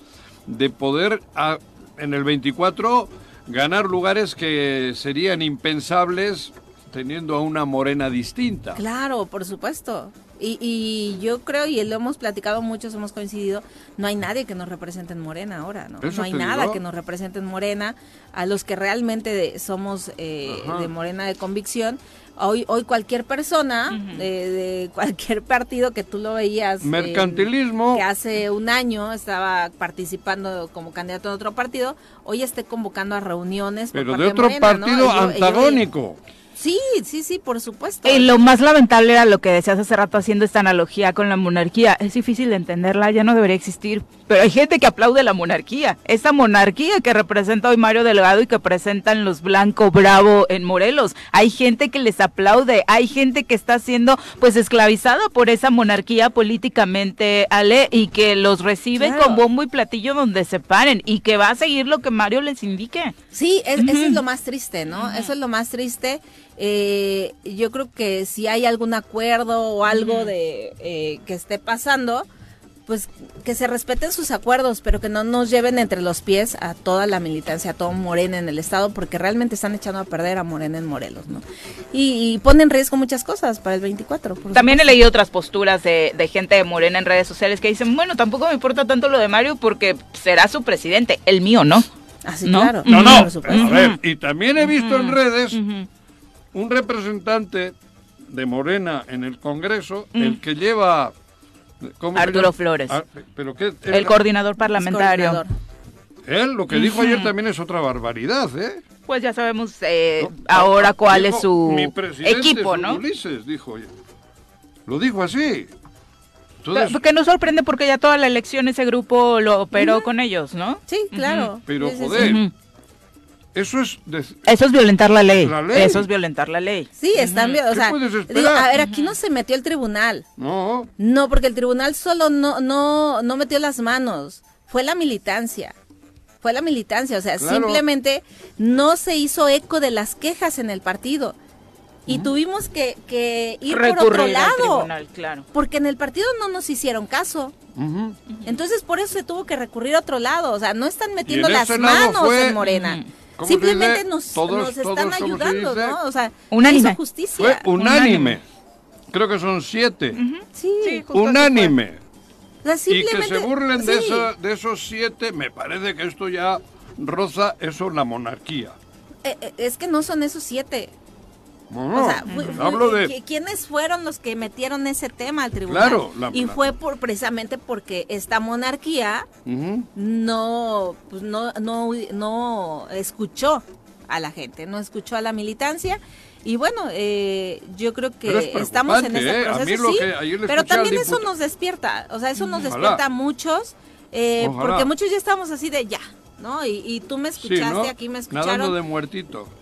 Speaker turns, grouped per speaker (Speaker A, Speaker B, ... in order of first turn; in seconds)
Speaker A: 0.5-8.8, 16.0-16.8, 20.5-20.9, 26.8-28.0, 33.9-36.2, 92.9-95.6, 96.5-97.8, 98.3-101.1, 101.8-104.2, 106.2-108.8, 110.2-113.9, 114.9-115.7, 116.6-117.0, 121.7-122.4, 123.5-124.5, 125.4-126.0, 127.7-128.7, 130.4-130.9, 137.4-137.8, 142.1-142.3, 147.8-148.2, 151.3-152.6, 153.4-156.0, 157.4-158.4, 159.1-160.2, 161.1-162.0, 162.9-168.8, 171.7-173.1, 175.7-176.6, 179.5-179.9, 188.2-191.3, 192.6-193.0, 194.4-194.9, 197.4-199.5
Speaker B: 8.8-35.8, 36.6-38.4, 59.0-59.4, 63.3-72.3, 72.9-85.0, 92.2-93.9, 104.8-105.5, 119.8-120.1, 120.9-122.3, 127.0-130.2, 131.0-135.8, 136.4-141.4, 142.1-144.9, 145.5-147.6, 148.4-157.7, 160.5-161.1, 162.6-164.3, 169.2-170.9, 171.9-179.3, 179.9-198.8
Speaker C: 23.9-24.2, 38.0-63.1, 63.8-64.2, 64.9-65.3, 69.9-70.3, 84.5-91.9, 92.5-94.0, 94.6-95.9, 102.1-103.0, 103.9-105.4, 106.7-107.3, 109.1-113.0, 116.7-121.5, 122.2-122.5, 124.5-127.6, 128.8-129.1, 143.7-145.5, 148.3-148.6, 152.6-153.1, 156.5-157.0, 157.8-158.4, 160.1-161.8, 172.2-172.6